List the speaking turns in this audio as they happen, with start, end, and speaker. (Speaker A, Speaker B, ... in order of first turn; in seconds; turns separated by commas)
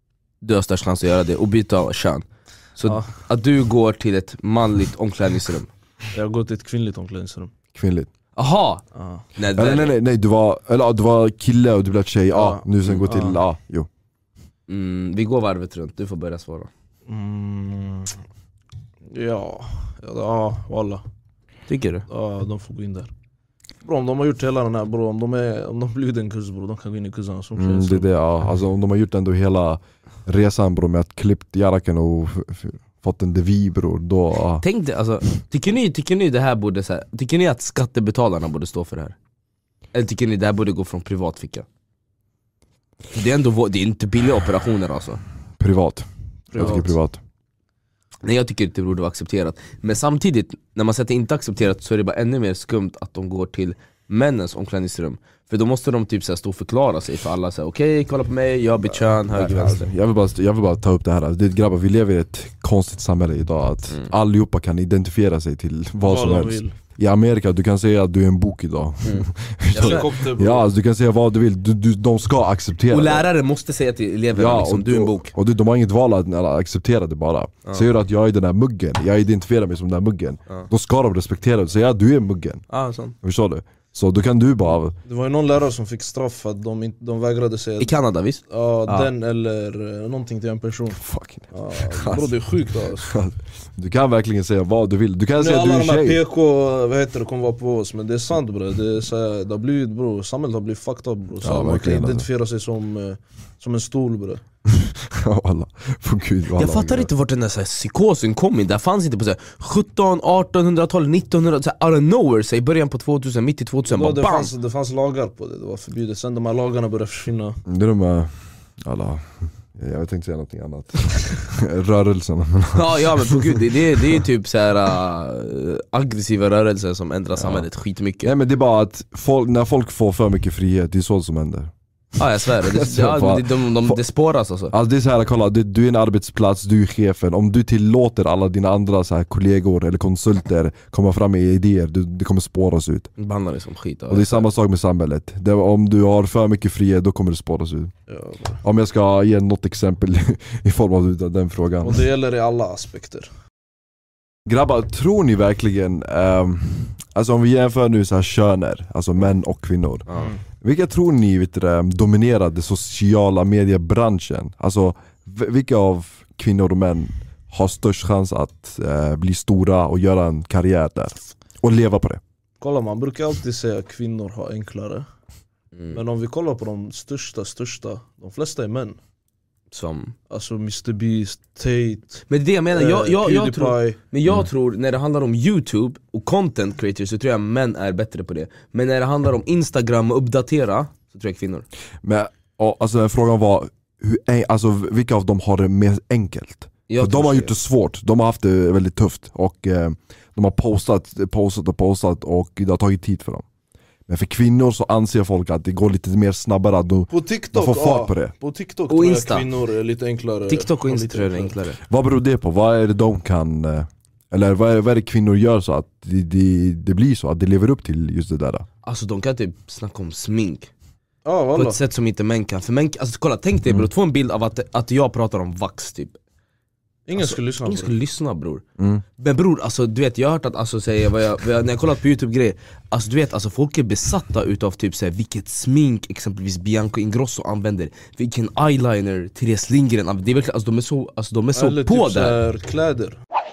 Speaker A: 0.4-2.3, Speaker A: 2.8-5.7, Speaker B: 6.1-7.5, Speaker C: 7.7-8.1, Speaker A: 8.4-8.8, Speaker B: 8.9-9.2, Speaker A: 9.3-9.9, Speaker C: 9.6-13.9, Speaker B: 12.3-13.4, Speaker A: 14.7-16.7, Speaker B: 17.1-18.1, Speaker B: 19.1-21.0, Speaker A: 21.7-22.1, Speaker B: 22.1-23.1, Speaker B: 23.8-28.1, Speaker C: 27.6-34.6, Speaker A: 34.6-39.1, Speaker A: 39.9-41.6, Speaker A: 43.1-45.2, Speaker C: 45.6-47.2, Speaker B: 46.5-46.9, Speaker A: 48.2-59.9, Speaker C: 59.1-73.3, Speaker B: 66.0-66.7, Speaker A: 69.0-70.1, Speaker B: 69.8-70.6, Speaker A: 72.9-75.3, Speaker C: 74.3-82.6, Speaker A: 82.7-83.1, Speaker C: 83.2-84.9, Speaker B: 85.1-87.9, Speaker A: 87.8-89.1, Speaker B: 88.5-91.0, Speaker C: 90.9-91.5, Speaker B: 91.5-93.1, Speaker A: 92.0-92.3, Speaker C: 93.0-96.2, Speaker B: 95.4-104.4, Speaker C: 101.4-102.3, Speaker C: 104.7-107.1, Speaker A: 106.6-114.5, Speaker B: 113.9-117.6, Speaker C: 117.7-123.6, Speaker A: 122.7-128.3, Speaker C: 127.4-127.7, Speaker C: 128.2-131.7, Speaker A: 132.2-134.7, Speaker C: 132.6-134.0, Speaker C: 134.7-143.1, Speaker A: 143.2-144.4, Speaker C: 144.1-147.9, Speaker B: 148.1-148.6, Speaker C: 148.6-152.0, Speaker B: 151.8-153.3, Speaker C: 154.5-172.2, Speaker B: 172.6-175.1, Speaker B: 175.9-179.0, Speaker A: 179.7-180.1, Speaker B: 180.3-184.0, Speaker A: 182.3-191.7, Speaker C: 192.0-203.4, Speaker A: 196.9-197.6, Speaker C: 204.1-208.3, Speaker B: 207.1-211.6, Speaker A: 208.9-209.5, Speaker A: 210.5-211.8, Speaker C: 211.9-218.7, Speaker A: 218.8-220.7, Speaker B: 221.2-221.8, Speaker A: 221.5-226.2, Speaker B: 227.1-227.9, Speaker A: 227.2-228.6, Speaker A: 229.2-242.4, Speaker B: 241.6-243.2